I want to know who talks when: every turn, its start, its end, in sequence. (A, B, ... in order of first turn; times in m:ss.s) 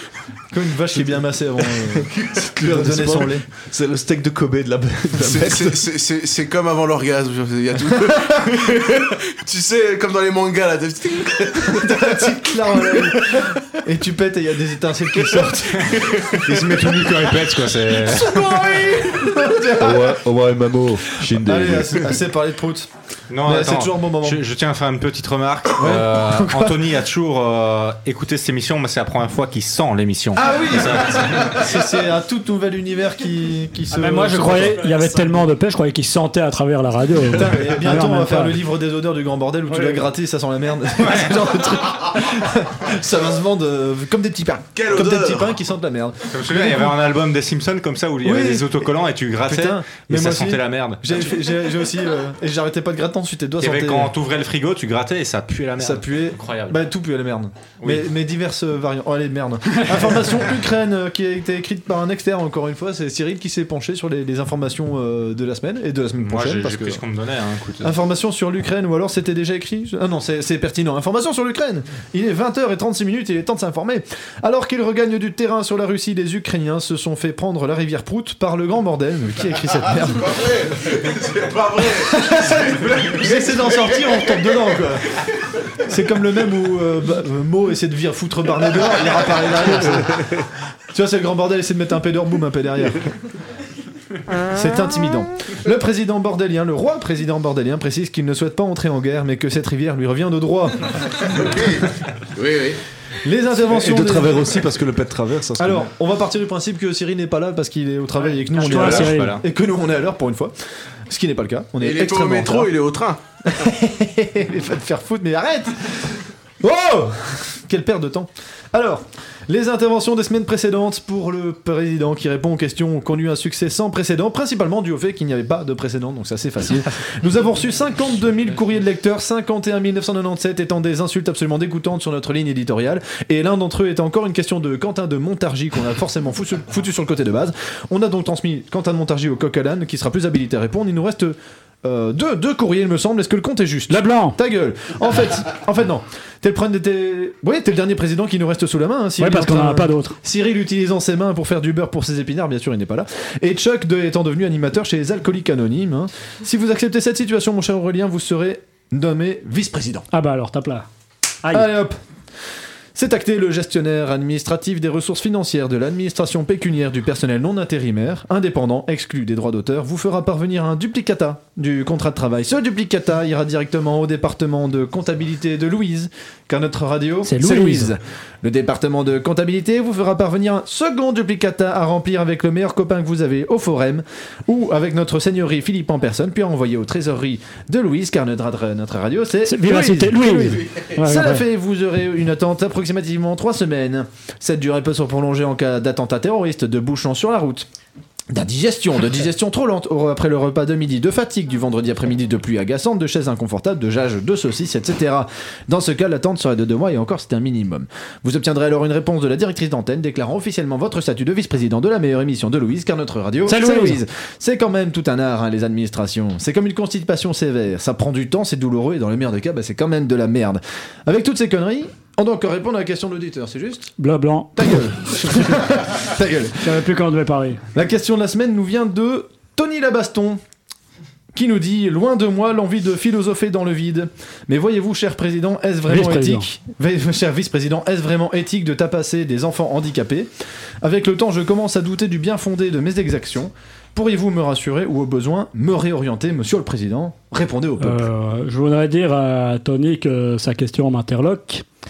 0:00.5-0:02.1 A
0:01.8-0:05.8 B
0:02.6-0:03.5 A
0:05.2-0:12.3 C
0:11.7-0:16.4 A
0:15.8-0:18.9 D
0:18.0-0:20.2 A
0:19.7-0:22.2 B
0:21.2-0:22.9 A
0:23.3-0:31.7 D
0:23.4-0:24.4 A
0:25.8-0:27.0 A
0:30.3-0:34.9 A
0:33.9-0:38.6 E
0:37.3-0:46.9 A
0:39.7-0:40.0 E
0:41.0-0:41.6 D
0:44.7-0:45.6 C
0:46.3-0:51.3 D
0:48.2-0:48.9 A
0:49.4-0:54.1 A
0:53.6-0:56.8 D
0:55.8-1:07.0 A
0:57.8-0:58.1 D
1:06.2-1:07.9 D
1:07.8-1:20.5 A
1:20.2-1:24.5 C
1:21.9-1:25.2 A
1:25.8-1:33.1 A
1:34.5-1:40.9 A
1:41.5-1:42.8 C
1:43.2-1:44.6 A
1:43.6-1:45.9 B
1:45.6-1:50.5 A
1:48.5-1:49.4 D
1:48.6-1:49.4 E
1:51.1-1:52.7 A
1:51.8-1:53.2 C
1:53.4-2:40.1 A
2:23.9-2:24.4 E
2:29.2-2:30.2 E
2:40.1-2:40.8 E
2:41.4-2:41.7 E
2:41.5-2:42.0 A
2:42.9-3:17.7 A
2:57.2-2:57.9 E
3:09.4-3:11.4 E
3:18.3-3:43.9 A
3:33.5-3:34.0 E
3:44.0-3:44.8 E
3:44.6-3:46.8 A
3:45.3-3:45.5 E
3:46.6-3:47.6 E
3:47.7-3:50.4 A
3:51.3-4:00.3 A
3:55.9-3:56.4 E
4:00.8-4:08.0 A
4:07.8-4:11.6 E